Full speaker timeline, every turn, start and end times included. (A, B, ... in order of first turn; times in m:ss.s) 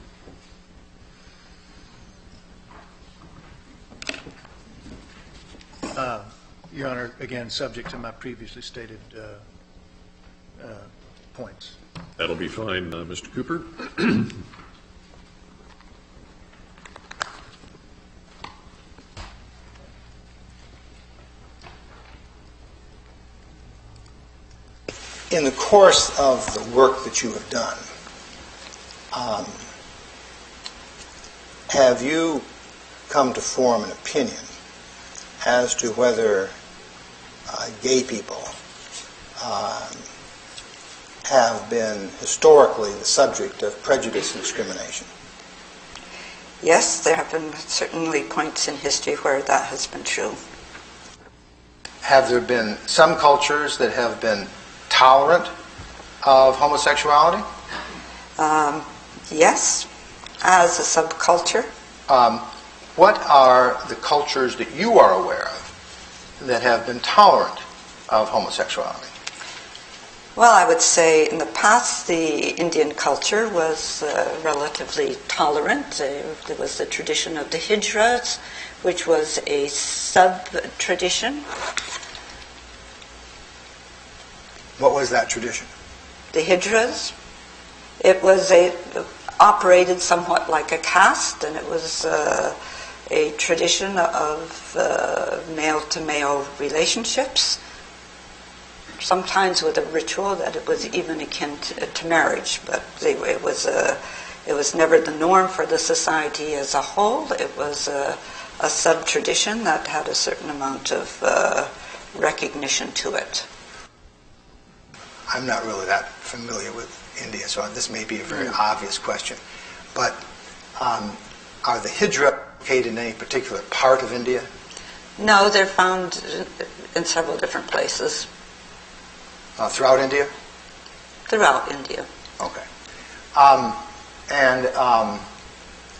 0:05.9-0:09.4 A
0:10.6-0:11.8 A
0:12.2-0:14.4 B
0:25.3-0:27.8 C
0:29.1-0:29.7 C
0:31.7-0:32.5 C
0:33.1-0:34.5 C
0:35.4-0:36.6 C
0:37.5-0:38.5 C
0:39.4-0:40.1 C
0:41.2-0:45.1 C
0:46.6-0:50.4 D
0:52.0-0:55.5 C
0:56.2-0:57.5 C
0:58.4-0:59.9 D
1:00.4-1:01.7 D
1:02.1-1:05.7 C
1:06.4-1:09.1 C
1:10.4-1:21.4 D
1:24.8-1:25.7 C
1:26.3-1:27.1 D
1:28.0-1:37.6 D
1:39.0-1:53.5 D
1:55.3-1:59.4 C
1:59.9-2:00.2 C
2:00.8-2:04.5 C
2:05.2-2:08.3 D
2:09.6-2:10.3 C
2:11.3-2:12.1 D
2:12.4-2:12.7 C
2:13.3-2:15.3 C